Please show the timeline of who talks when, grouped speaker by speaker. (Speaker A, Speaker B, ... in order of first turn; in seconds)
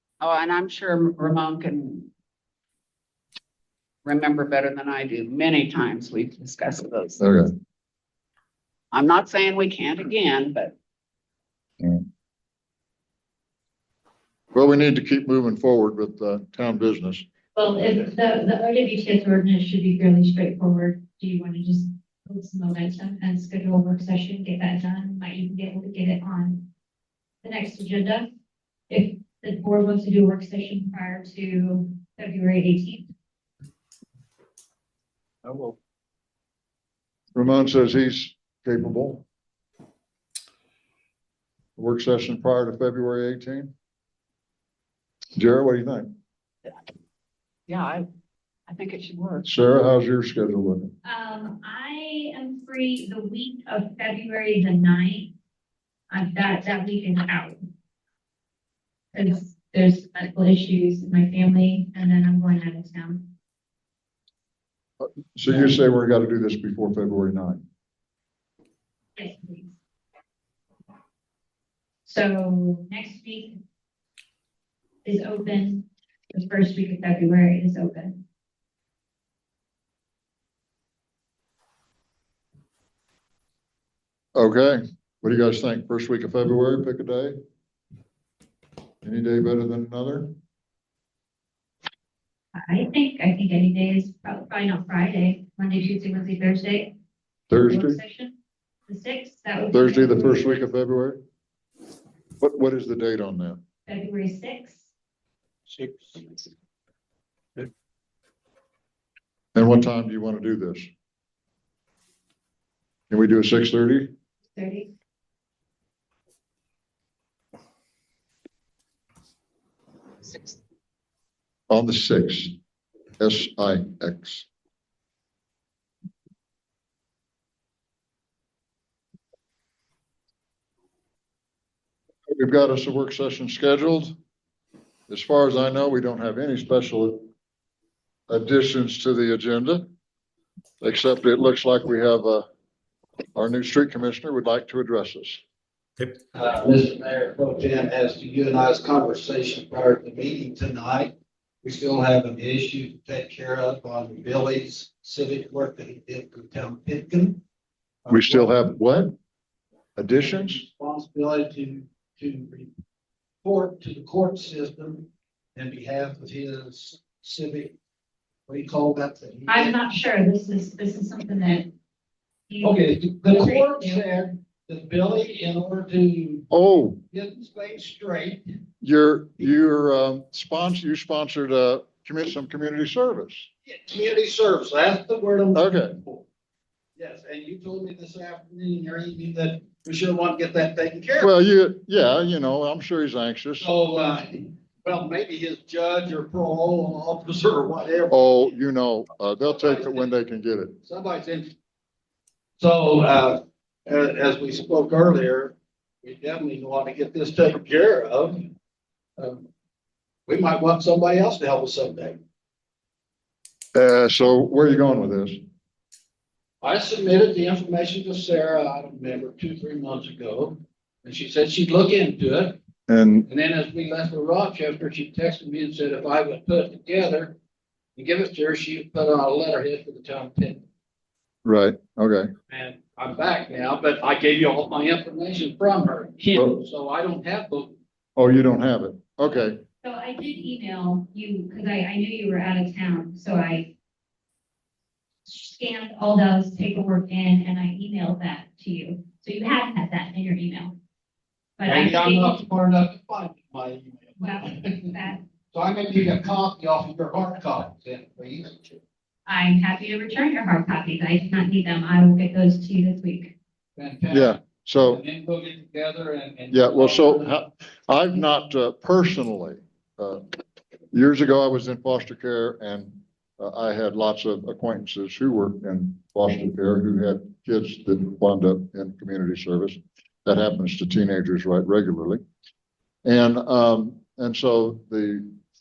Speaker A: 0.2-2.1, 4.0-7.3, 8.9-10.8, 47.7-48.1, 48.7-49.5
Speaker B: 7.2-7.5, 14.5-17.2, 37.4-39.2, 41.8-43.7, 45.4-46.1, 49.4-50.9, 65.0-67.6, 84.3-87.3, 89.0-90.3, 97.5-98.0, 99.7-101.2, 102.4-103.6, 109.5-110.9, 113.1-114.1, 121.7-122.5, 123.2-124.5, 132.3-134.2, 135.1-137.2, 138.3-139.9, 140.8-142.5, 143.3-145.4, 158.1-159.2, 160.0-160.6, 176.5-177.0, 178.8-183.5, 185.6-186.0, 191.2-193.7, 198.1-200.8, 213.7-215.4, 222.9-223.3, 231.4-232.3, 238.2-239.6, 264.1-265.0, 266.5-270.2, 270.9-282.2, 283.1-285.3
Speaker C: 17.6-26.7, 27.4-28.3, 28.9-33.1, 51.0-55.3, 56.1-57.6, 59.1-63.3, 69.2-69.8, 72.1-73.6, 75.0-78.2, 92.5-97.0, 97.6-98.3, 98.9-100.7, 103.9-104.9, 114.5-114.9, 169.5-171.7, 172.5-174.0, 239.8-243.7, 245.3-250.8, 251.6-252.4, 254.2-255.2, 259.3-263.3
Speaker D: 105.7-106.2, 146.3-157.4, 158.1-158.6, 160.1-162.7, 163.4-167.8, 168.5-169.8, 172.6-176.5, 177.1-178.5, 183.6-186.2, 187.0-191.3, 193.6-198.5, 199.5-200.1, 200.8-201.5, 202.6-208.5, 209.2-209.5, 210.3-212.2, 216.6-222.6, 223.3-227.4, 228.0-230.6, 232.5-237.8, 251.7-255.0, 255.5-258.8, 263.8-267.3